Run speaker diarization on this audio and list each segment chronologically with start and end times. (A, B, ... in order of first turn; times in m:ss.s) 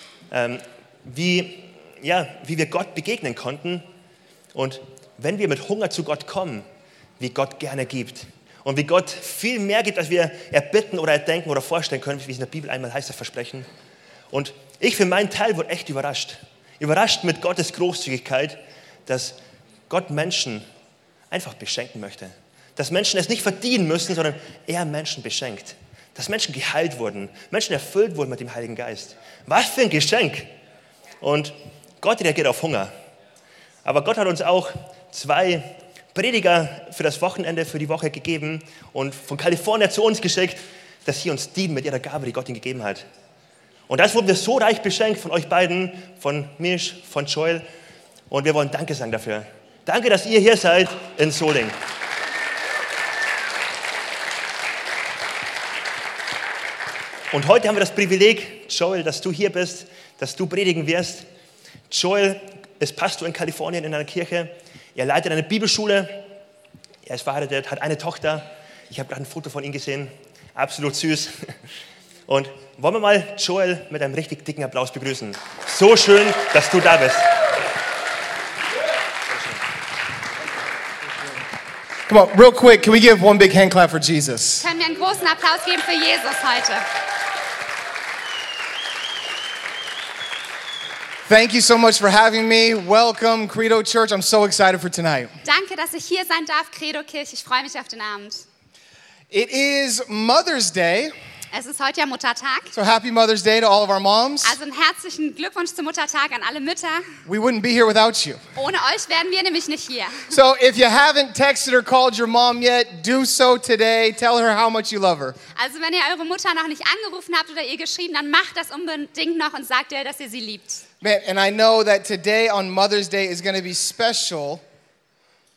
0:00.3-0:03.9 A
0:04.5-0:06.7 A
0:07.2-0:13.7 A
0:14.3-0:19.4 A
0:19.9-0:20.6 A
0:21.3-0:30.5 A
0:31.2-0:32.9 A
0:33.8-0:43.0 A
0:43.9-0:47.7 A
0:48.3-0:51.8 A
0:57.3-1:01.2 A
1:01.9-1:06.3 A
1:07.1-1:11.6 A
1:12.3-1:17.3 A
1:22.1-1:24.7 B
1:24.6-1:26.9 C
1:31.3-1:35.3 B
1:35.4-1:38.4 C
1:39.3-1:41.1 B
1:41.5-1:42.7 C
1:42.7-1:44.6 B
1:44.4-1:47.1 C
1:47.3-1:48.4 B
1:48.6-1:50.3 C
1:50.3-1:55.4 B
1:55.6-2:00.8 C
2:01.0-2:04.6 B